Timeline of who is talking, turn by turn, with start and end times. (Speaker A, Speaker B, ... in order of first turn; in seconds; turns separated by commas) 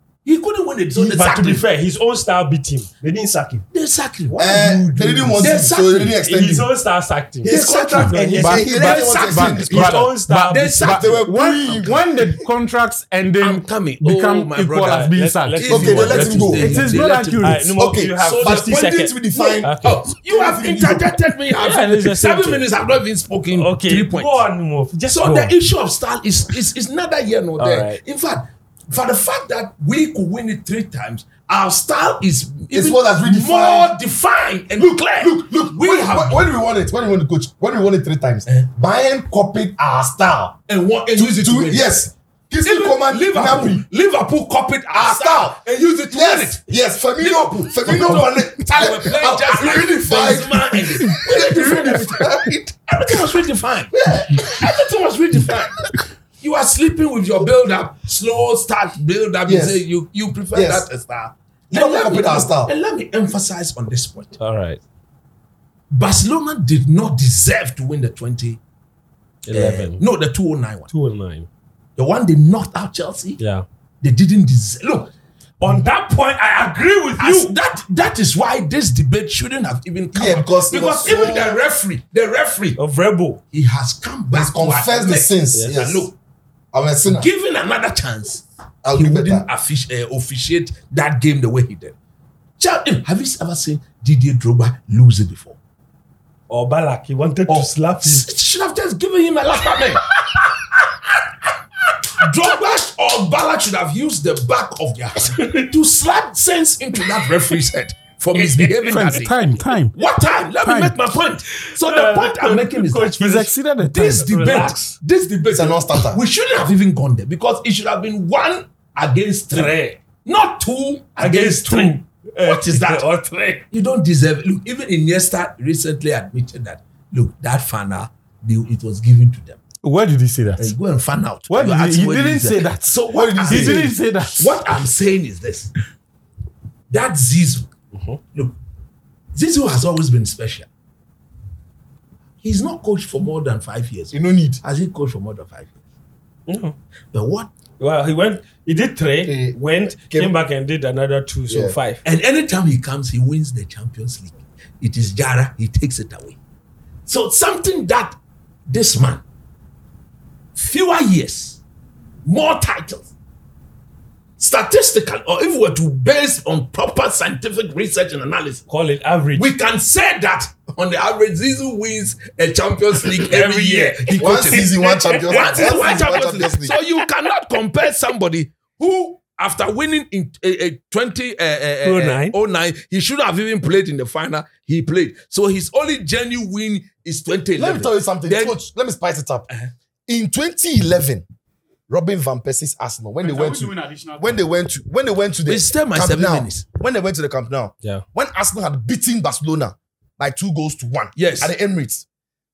Speaker A: 0.2-1.6, Speaker B: 0.9-1.5, Speaker C: 1.1-2.9, Speaker D: 3.0-3.6, Speaker A: 3.7-6.2, Speaker B: 4.4-6.7, Speaker D: 5.0-5.5, Speaker C: 6.2-8.4, Speaker B: 7.4-10.0, Speaker A: 7.5-11.2, Speaker E: 7.9-17.6, Speaker D: 8.1-9.1, Speaker C: 9.7-10.9, Speaker B: 10.8-12.1, Speaker A: 13.4-24.5, Speaker C: 14.8-16.6, Speaker B: 15.7-17.0, Speaker C: 17.4-20.0, Speaker B: 17.7-21.2, Speaker C: 21.6-22.7, Speaker C: 23.5-25.5, Speaker A: 25.1-36.5, Speaker C: 27.6-28.0, Speaker B: 32.7-33.9, Speaker B: 34.8-40.6, Speaker A: 40.7-41.9, Speaker B: 41.1-43.9, Speaker A: 42.6-46.7, Speaker B: 44.9-53.3, Speaker A: 47.2-55.9, Speaker B: 53.9-54.7, Speaker A: 56.4-64.4, Speaker B: 59.5-59.8, Speaker B: 60.5-60.9, Speaker B: 61.7-62.7, Speaker C: 64.4-64.8, Speaker A: 65.9-68.6, Speaker C: 69.5-70.0, Speaker A: 69.5-70.9, Speaker C: 70.9-71.5, Speaker A: 72.0-73.4, Speaker C: 73.4-73.7, Speaker A: 74.0-75.1, Speaker C: 75.6-77.5, Speaker A: 77.2-82.8, Speaker B: 80.1-81.6, Speaker C: 82.8-83.4, Speaker A: 83.5-86.1, Speaker B: 84.3-86.1, Speaker C: 85.5-85.8, Speaker B: 86.7-87.3, Speaker A: 87.1-92.0, Speaker B: 88.8-89.5, Speaker A: 92.6-95.6, Speaker C: 96.5-98.3, Speaker A: 97.5-100.1, Speaker A: 102.2-109.3, Speaker E: 108.4-110.0, Speaker A: 109.9-123.1, Speaker E: 110.6-111.0, Speaker C: 111.6-113.5, Speaker E: 113.1-114.3, Speaker C: 114.0-115.0, Speaker B: 115.5-116.2, Speaker C: 119.5-120.0, Speaker C: 121.2-123.6, Speaker A: 123.7-129.6, Speaker E: 129.8-130.7, Speaker A: 130.6-135.7, Speaker E: 131.5-134.7, Speaker B: 133.1-133.9, Speaker A: 136.9-137.7, Speaker C: 137.9-138.2, Speaker A: 139.3-140.7, Speaker A: 142.4-145.7, Speaker B: 144.1-144.6, Speaker C: 146.5-146.8, Speaker A: 147.1-147.5, Speaker C: 147.8-152.0, Speaker B: 149.2-150.4, Speaker B: 151.5-151.8, Speaker A: 152.0-156.4, Speaker A: 157.1-158.2, Speaker A: 158.7-159.2, Speaker A: 160.6-161.6, Speaker A: 162.2-163.1, Speaker A: 164.4-168.7, Speaker C: 168.7-169.5, Speaker A: 169.4-188.6, Speaker C: 173.1-177.1, Speaker B: 174.2-176.7, Speaker C: 181.8-182.4, Speaker B: 187.6-189.5, Speaker B: 190.1-191.2, Speaker B: 191.9-202.1, Speaker E: 193.2-194.3, Speaker A: 195.5-196.6, Speaker A: 201.2-201.5